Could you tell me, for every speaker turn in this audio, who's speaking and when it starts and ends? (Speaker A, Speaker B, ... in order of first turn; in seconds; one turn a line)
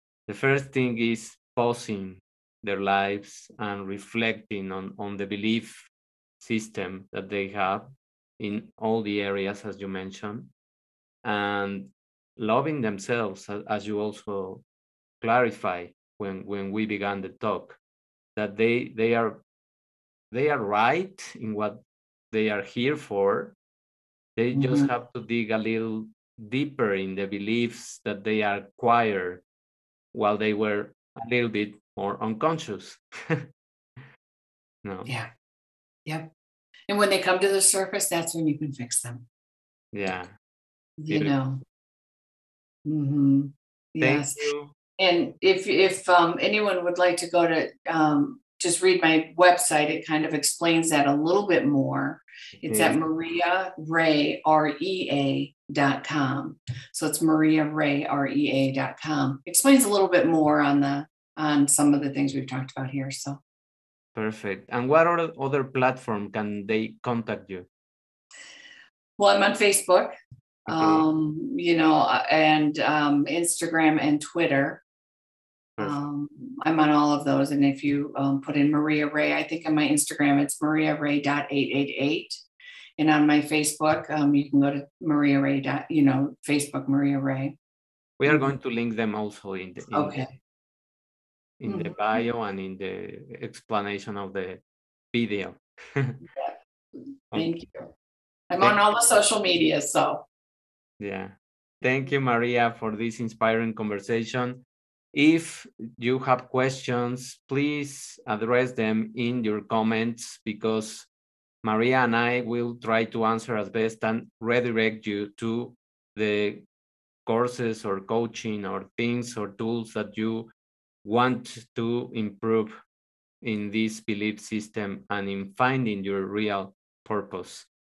Speaker A: 0.3-10.5
Speaker A: 11.2-14.6
Speaker A: 15.2-17.8
Speaker A: 18.4-19.4
Speaker A: 20.3-23.6
Speaker A: 24.4-29.4
Speaker B: 24.5-24.9
Speaker A: 30.1-33.4
Speaker A: 34.8-35.1
Speaker B: 36.9-39.2
Speaker A: 39.9-40.3
Speaker B: 41.0-41.6
Speaker A: 41.1-41.4
Speaker B: 42.9-44.4
Speaker A: 44.0-44.7
Speaker B: 45.0-63.4
Speaker A: 52.6-53.0
Speaker A: 64.1-67.7
Speaker B: 69.2-70.1
Speaker A: 70.7-71.0
Speaker B: 70.7-74.8
Speaker B: 75.8-82.4
Speaker B: 83.0-87.5
Speaker A: 88.2-90.2
Speaker B: 89.9-90.3
Speaker A: 91.6-94.6
Speaker B: 91.7-91.9
Speaker A: 95.1-96.2
Speaker B: 97.3-97.9
Speaker B: 98.5-100.2
Speaker A: 101.0-104.6
Speaker A: 105.1-111.1
Speaker A: 111.6-116.6
Speaker A: 117.2-120.5
Speaker A: 121.0-122.7
Speaker A: 123.4-127.7